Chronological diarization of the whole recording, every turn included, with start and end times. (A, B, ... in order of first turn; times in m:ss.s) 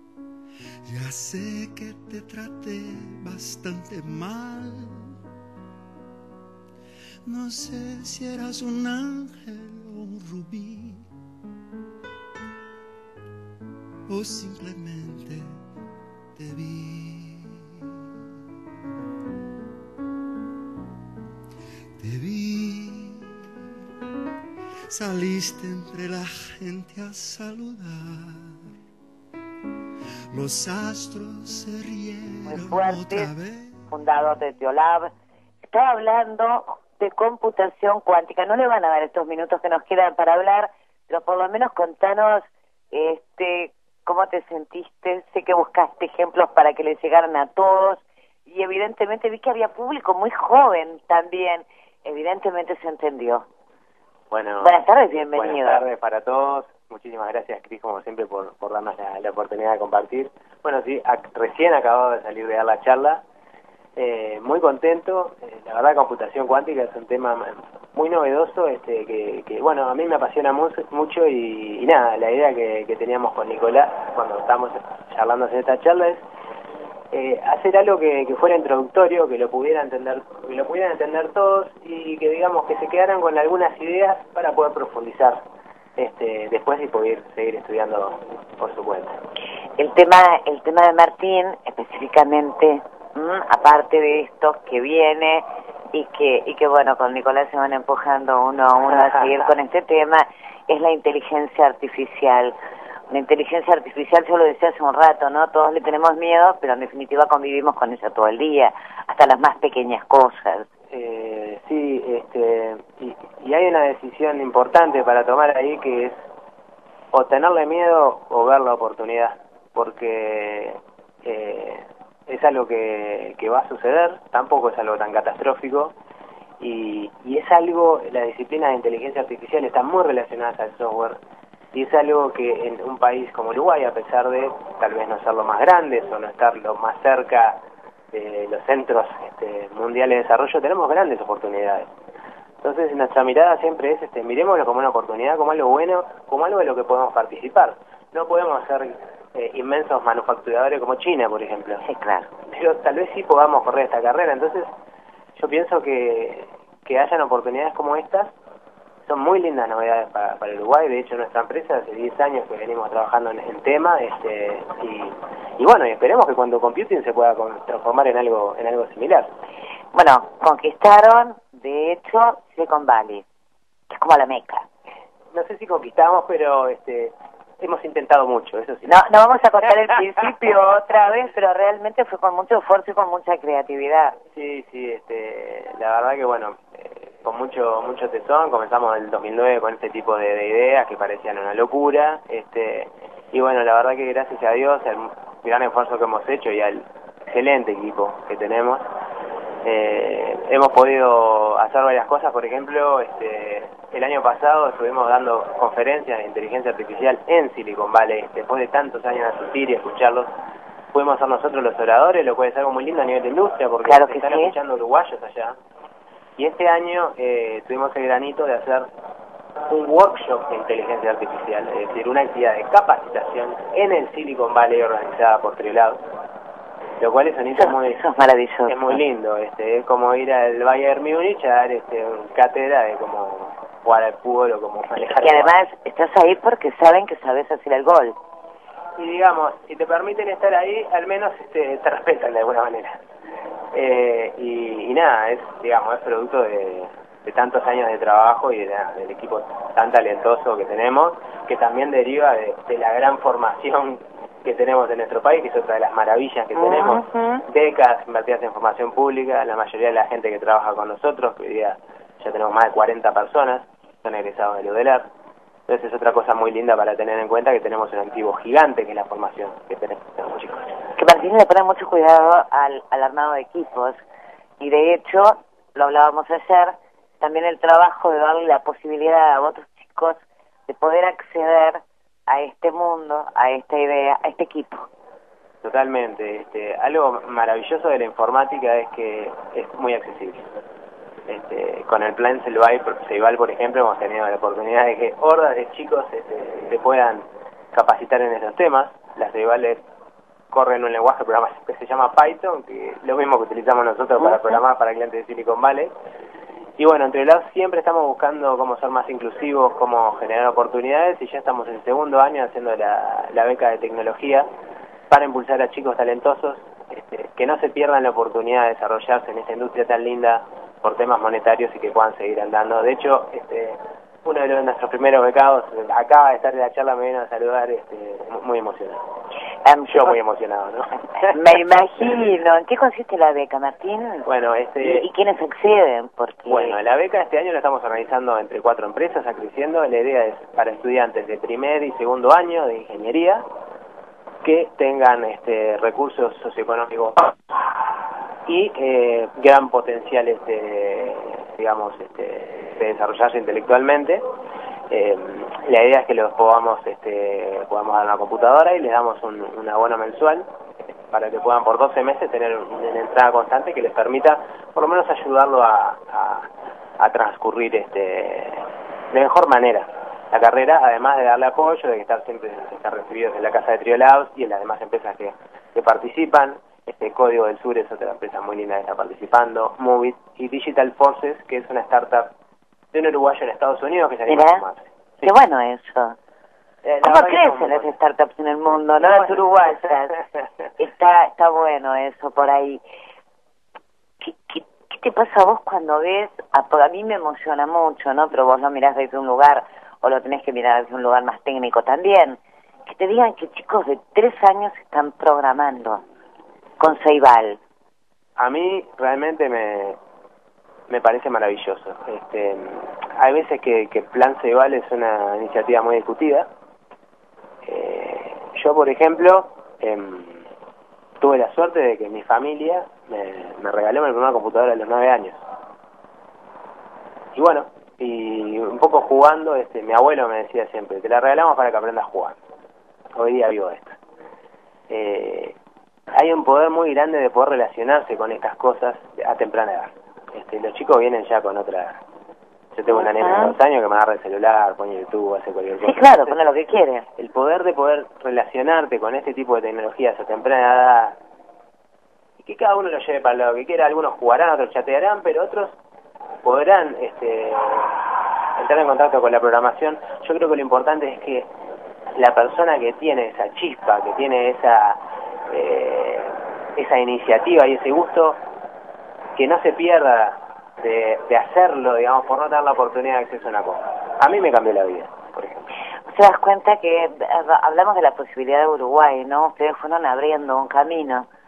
0:00.9-0:05.2 A
0:07.2-0:11.1 A
0:14.1-0:15.6 A
0:16.4-0:18.1 A
0:22.0-0:23.7 A
0:24.9-0:28.7 A
0:30.3-0:33.8 A
0:32.5-0:33.3 B
0:33.9-0:35.1 B
0:35.6-0:53.4 B
0:54.3-0:54.8 C
0:54.6-0:55.8 B
0:55.4-1:03.2 C
1:04.0-1:16.2 C
1:17.1-1:25.4 C
1:26.0-1:29.2 C
1:29.8-1:42.5 B
1:38.8-1:39.5 C
1:43.1-1:50.7 B
1:50.9-1:56.2 C
1:57.1-2:05.9 C
2:06.6-2:11.2 C
2:11.7-2:17.6 C
2:18.1-2:21.9 C
2:22.6-2:31.8 C
2:31.8-2:32.3 B
2:32.5-2:34.7 C
2:35.4-2:38.3 C
2:39.1-2:49.3 C
2:49.9-2:53.2 B
2:53.9-2:54.6 B
2:55.3-2:58.9 C
2:58.9-3:04.2 B
3:04.4-3:18.8 C
3:19.6-3:30.3 C
3:30.9-3:35.6 C
3:33.8-3:34.5 B
3:36.4-3:38.9 C
3:39.7-3:46.0 C
3:47.0-3:48.0 C
3:47.6-3:49.0 B
3:48.7-3:55.5 C
3:55.0-3:58.2 B
3:59.0-4:03.0 C
4:03.7-4:25.1 C
4:16.6-4:17.4 B
4:25.7-4:30.7 C
4:31.0-4:34.0 B
4:34.6-4:44.9 B
4:45.6-4:50.5 C
4:51.3-4:59.8 C
5:00.5-5:05.9 C
5:04.3-5:04.6 B
5:06.8-5:14.5 C
5:15.1-5:29.0 C
5:29.6-5:30.2 B
5:29.9-5:31.4 C
5:31.3-5:34.3 B
5:34.3-5:35.1 C
5:34.8-5:36.8 B
5:36.5-5:43.4 C
5:44.4-5:47.3 C
5:48.5-5:54.2 C
5:54.9-6:00.4 C
6:01.1-6:06.5 C
6:07.0-6:22.3 C
6:22.9-6:25.3 C
6:24.3-6:24.6 B
6:25.2-6:26.2 B
6:26.8-6:27.9 C
6:27.0-6:30.2 B
6:29.0-6:29.3 C
6:30.8-6:32.8 B
6:34.2-6:46.0 B
6:46.8-6:47.6 B
6:48.4-6:50.0 C
6:50.9-6:56.5 C
6:57.7-7:00.4 C
7:01.2-7:05.4 C
7:07.4-7:12.4 C
7:13.2-7:14.0 C
7:14.9-7:15.6 C
7:16.1-7:22.0 C
7:22.7-7:26.4 C
7:22.9-7:23.6 B
7:25.8-7:27.1 B
7:27.2-7:31.2 C
7:32.4-7:35.8 C
7:36.4-7:38.0 C
7:38.6-7:41.5 C
7:42.2-7:48.4 C
7:49.4-7:55.6 C
7:56.1-8:01.3 B